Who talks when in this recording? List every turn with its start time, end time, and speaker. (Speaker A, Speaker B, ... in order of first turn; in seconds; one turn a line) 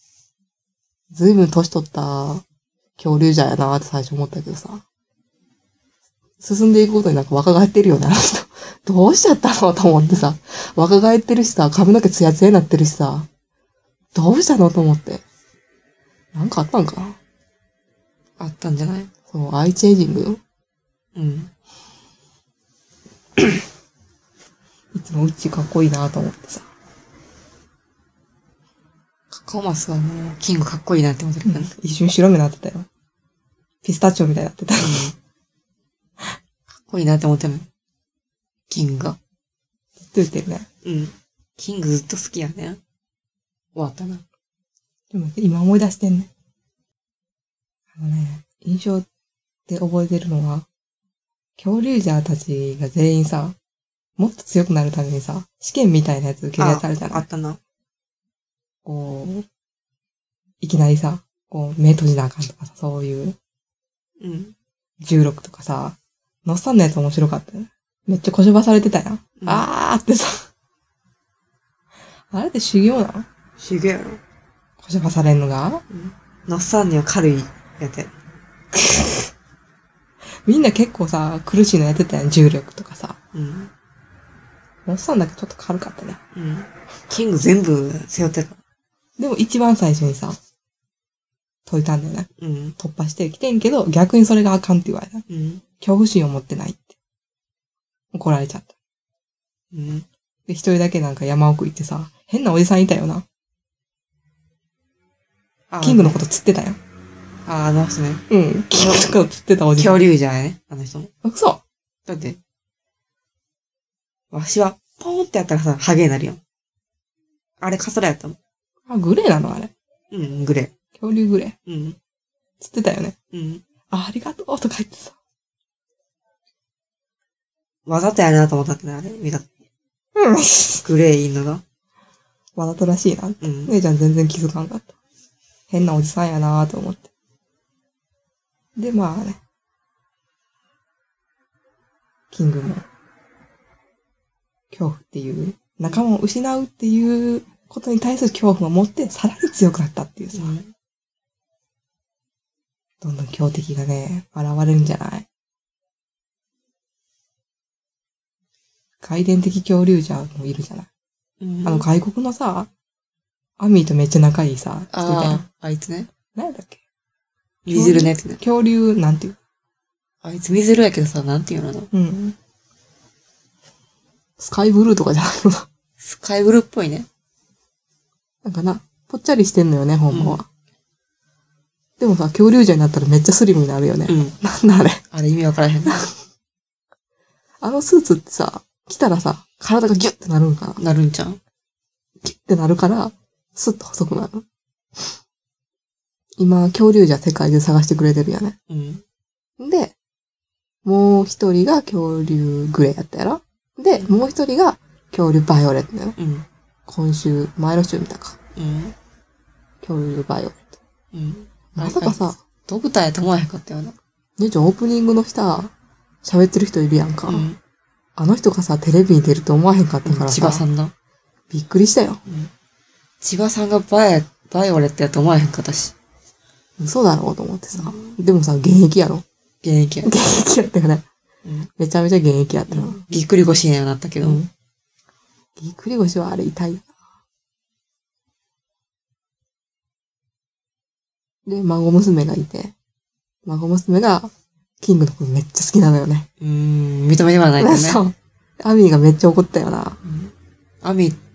Speaker A: 1.1-2.4
Speaker A: 3.0-4.8
Speaker A: 6.4-13.3
Speaker B: 9.9-10.2
Speaker A: 14.2-15.2
Speaker A: 16.3-17.2
Speaker B: 18.4-19.1
Speaker A: 19.3-20.4
Speaker B: 21.1-21.5
Speaker A: 24.9-26.7
Speaker B: 29.3-31.7
Speaker A: 31.4-32.9
Speaker A: 33.8-35.1
Speaker B: 34.8-35.1
Speaker B: 36.9-37.7
Speaker B: 38.7-39.2
Speaker A: 40.0-40.7
Speaker B: 40.8-42.8
Speaker B: 43.8-44.2
Speaker A: 45.1-46.3
Speaker A: 48.0-49.1
Speaker A: 49.7-50.7
Speaker A: 51.6-53.6
Speaker A: 54.2-57.3
Speaker B: 56.6-57.6
Speaker A: 58.9-59.5
Speaker A: 60.6-63.4
Speaker B: 64.2-64.5
Speaker A: 65.0-70.5
Speaker B: 69.4-69.7
Speaker A: 72.3-73.3
Speaker B: 73.6-74.2
Speaker A: 74.8-75.8
Speaker B: 75.9-78.1
Speaker A: 80.5-83.2
Speaker B: 83.3-83.7
Speaker A: 84.9-86.2
Speaker B: 86.3-88.6
Speaker A: 89.2-90.4
Speaker A: 91.7-95.2
Speaker B: 92.4-92.8
Speaker B: 95.3-95.6
Speaker A: 95.8-97.0
Speaker A: 98.1-98.7
Speaker B: 99.7-100.1
Speaker A: 100.5-103.2
Speaker B: 105.7-106.2
Speaker A: 105.8-106.8
Speaker B: 107.5-108.2
Speaker A: 108.3-110.1
Speaker B: 109.8-111.1
Speaker A: 111.2-111.6
Speaker B: 112.1-112.4
Speaker B: 114.3-116.4
Speaker B: 117.6-118.4
Speaker A: 118.9-119.7
Speaker B: 120.1-120.7
Speaker A: 121.0-121.6
Speaker B: 121.7-122.0
Speaker A: 122.6-123.2
Speaker B: 123.3-123.6
Speaker A: 123.9-125.2
Speaker B: 127.9-129.5
Speaker A: 130.2-130.8
Speaker B: 130.8-131.6
Speaker A: 132.6-134.9
Speaker B: 133.4-133.8
Speaker A: 135.7-137.1
Speaker A: 138.8-139.4
Speaker A: 142.3-142.8
Speaker A: 144.7-150.6
Speaker B: 150.3-150.7
Speaker A: 153.0-155.3
Speaker A: 159.0-160.9
Speaker B: 161.4-161.9
Speaker A: 161.6-162.7
Speaker A: 163.6-165.5
Speaker B: 164.9-166.1
Speaker A: 166.3-166.8
Speaker B: 167.7-168.4
Speaker A: 167.7-169.4
Speaker B: 170.2-171.9
Speaker A: 171.9-172.4
Speaker A: 174.4-175.7
Speaker B: 176.0-177.1
Speaker A: 178.4-180.5
Speaker B: 180.1-180.4
Speaker A: 182.0-185.0
Speaker B: 184.1-184.4
Speaker B: 185.1-186.1
Speaker A: 187.6-190.8
Speaker B: 190.8-191.4
Speaker A: 192.2-194.4
Speaker A: 196.4-198.6
Speaker B: 198.7-199.0
Speaker A: 199.6-199.9
Speaker A: 200.8-206.2
Speaker B: 206.2-206.5
Speaker A: 206.9-208.4
Speaker B: 208.6-208.9
Speaker A: 209.8-210.8
Speaker B: 211.1-214.0
Speaker A: 211.8-212.4
Speaker A: 214.4-215.7
Speaker A: 216.2-217.5
Speaker B: 217.3-217.6
Speaker A: 218.2-220.7
Speaker B: 220.1-220.9
Speaker A: 221.5-222.2
Speaker B: 222.3-222.5
Speaker B: 223.2-225.9
Speaker A: 226.8-229.2
Speaker B: 227.7-228.2
Speaker B: 229.6-230.1
Speaker A: 230.0-231.1
Speaker A: 231.8-233.0
Speaker B: 232.7-234.4
Speaker A: 234.2-234.5
Speaker A: 235.6-236.9
Speaker A: 241.5-242.8
Speaker A: 243.4-246.3
Speaker B: 246.4-248.0
Speaker A: 247.6-250.0
Speaker B: 250.0-251.2